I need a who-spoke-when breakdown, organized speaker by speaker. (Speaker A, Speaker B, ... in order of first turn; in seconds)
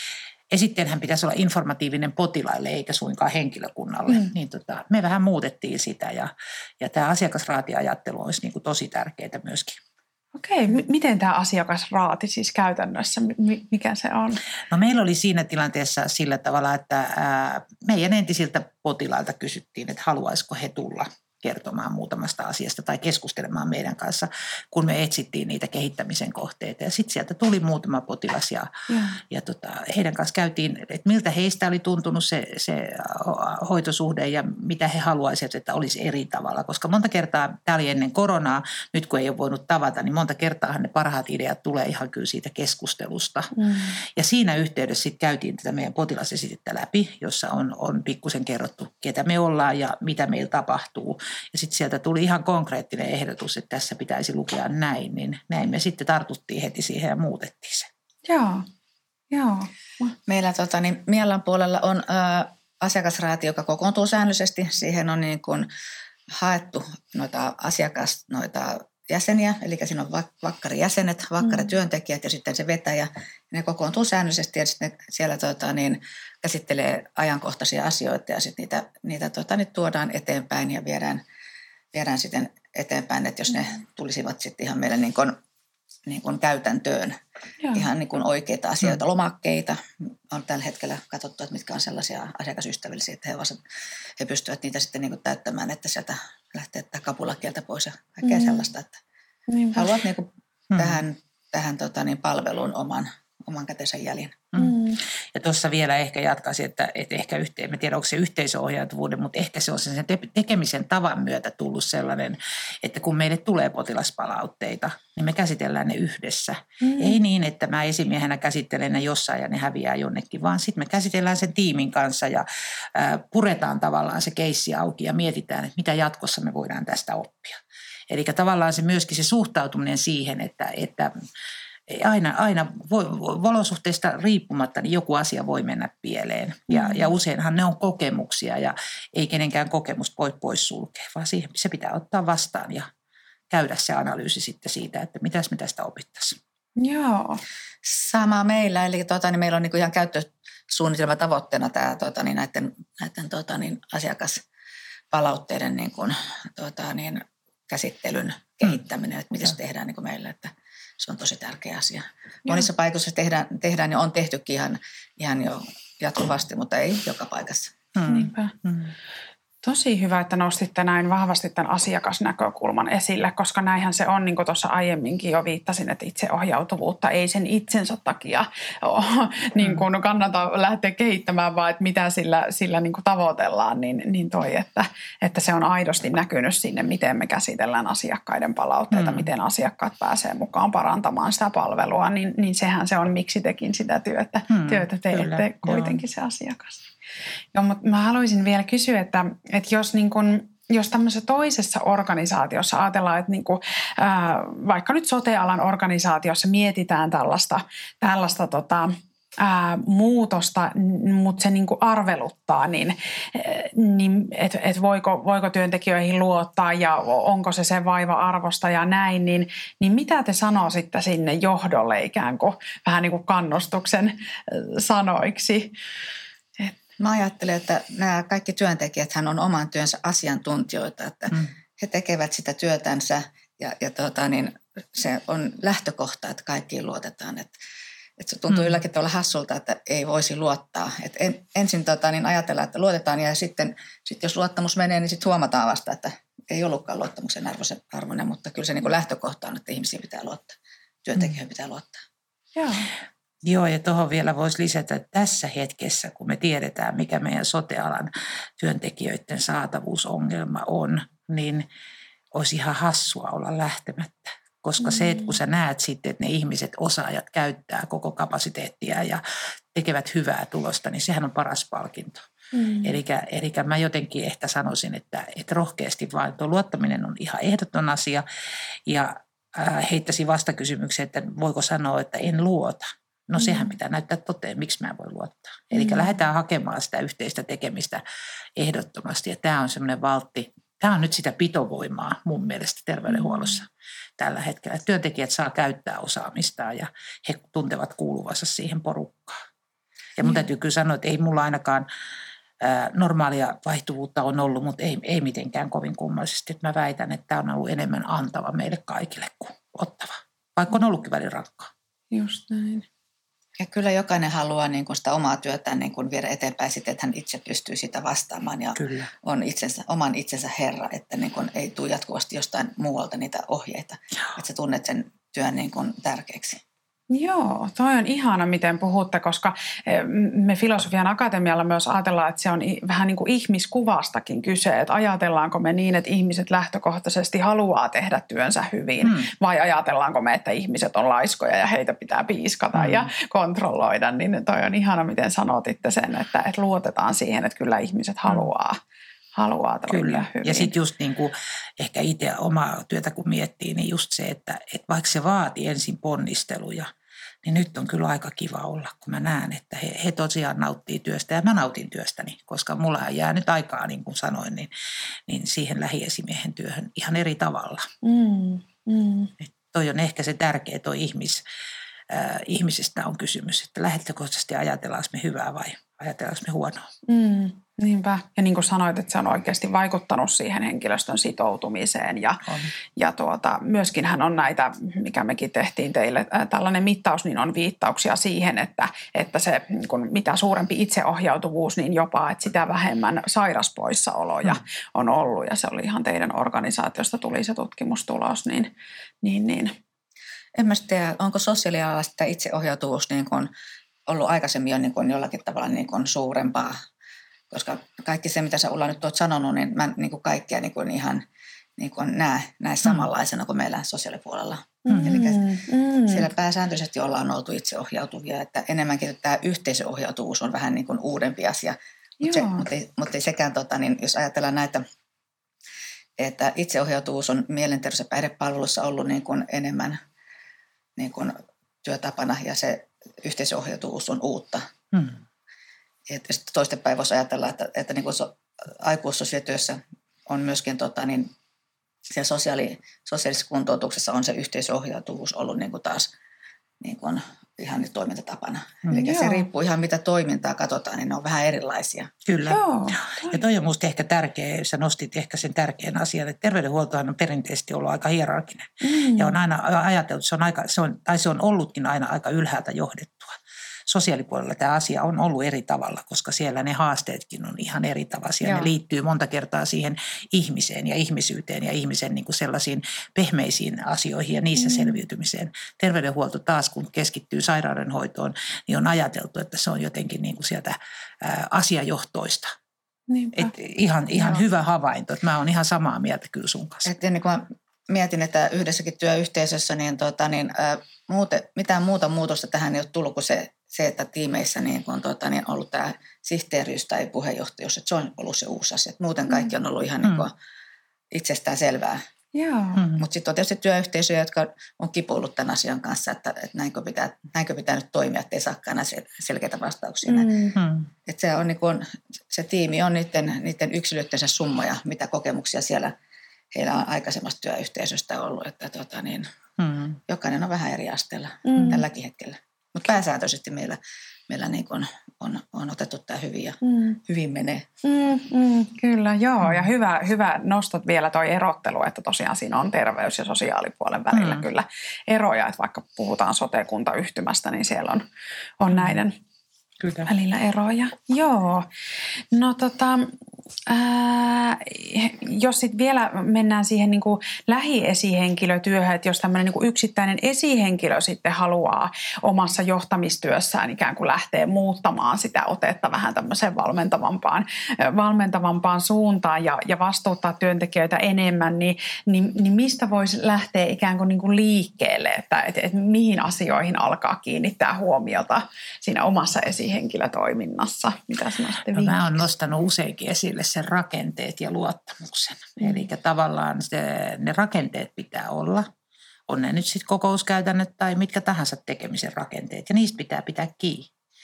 Speaker A: 0.5-9.8, 14.7-28.7, 29.3-57.9, 100.7-101.0, 105.3-127.6, 128.1-131.1, 131.9-142.9, 143.5-146.4, 167.9-168.9, 179.6-179.9, 188.9-189.3, 194.5-196.0, 253.4-261.7, 262.3-269.2, 269.7-272.3, 272.8-278.2, 278.9-288.0, 288.6-293.7, 294.2-299.4, 300.2-301.9, 302.6-311.7, 318.8-319.1, 339.0-339.3, 342.8-343.1, 349.9-356.9, 357.4-364.7, 365.3-367.9, 369.4-371.4, 372.1-376.9, 414.9-415.1, 452.2-463.4, 463.9-482.5, 483.4-486.9, 502.8-503.0, 510.6-510.9, 519.6-520.0, 534.1-534.5, 538.7-539.0, 539.8-540.1, 571.7-578.7, 579.3-583.9
Speaker B: 10.3-14.4, 28.9-29.2, 43.6-44.0, 58.3-58.7, 59.3-60.1, 98.2-98.6, 99.5-99.9, 104.6-105.0, 116.8-117.2, 136.7-137.1, 146.8-147.4, 168.1-168.5, 169.6-196.8, 197.5-225.7, 252.6-252.9, 272.5-273.0, 285.8-286.0, 312.1-312.9, 327.1-348.8, 349.4-350.7, 368.0-369.3, 377.1-398.7, 399.2-399.8, 414.9-416.3, 422.2-422.7, 448.9-449.5, 452.5-453.4, 458.8-459.4, 474.6-475.0, 483.1-483.5, 502.3-502.9, 510.0-510.6, 521.5-521.8, 526.6-527.0, 527.8-538.0, 538.6-539.1, 540.1-541.7, 542.3-543.1, 543.7-572.2, 575.6-575.9
Speaker C: 60.3-65.7, 66.3-81.2, 81.9-85.4, 86.1-87.2, 87.7-93.6, 94.2-99.0, 99.7-104.4, 147.8-154.4, 155.1-167.7, 227.0-237.6, 238.2-252.0, 313.6-326.6, 400.6-403.5, 404.1-406.8, 407.5-411.2, 411.8-415.4, 416.1-424.9, 426.2-430.0, 431.0-434.7, 436.1-441.3, 442.1-446.1, 446.8-452.1, 468.4-468.7, 486.9-500.3, 501.1-502.0, 503.0-510.3, 511.1-516.0, 516.5-519.3, 520.1-527.7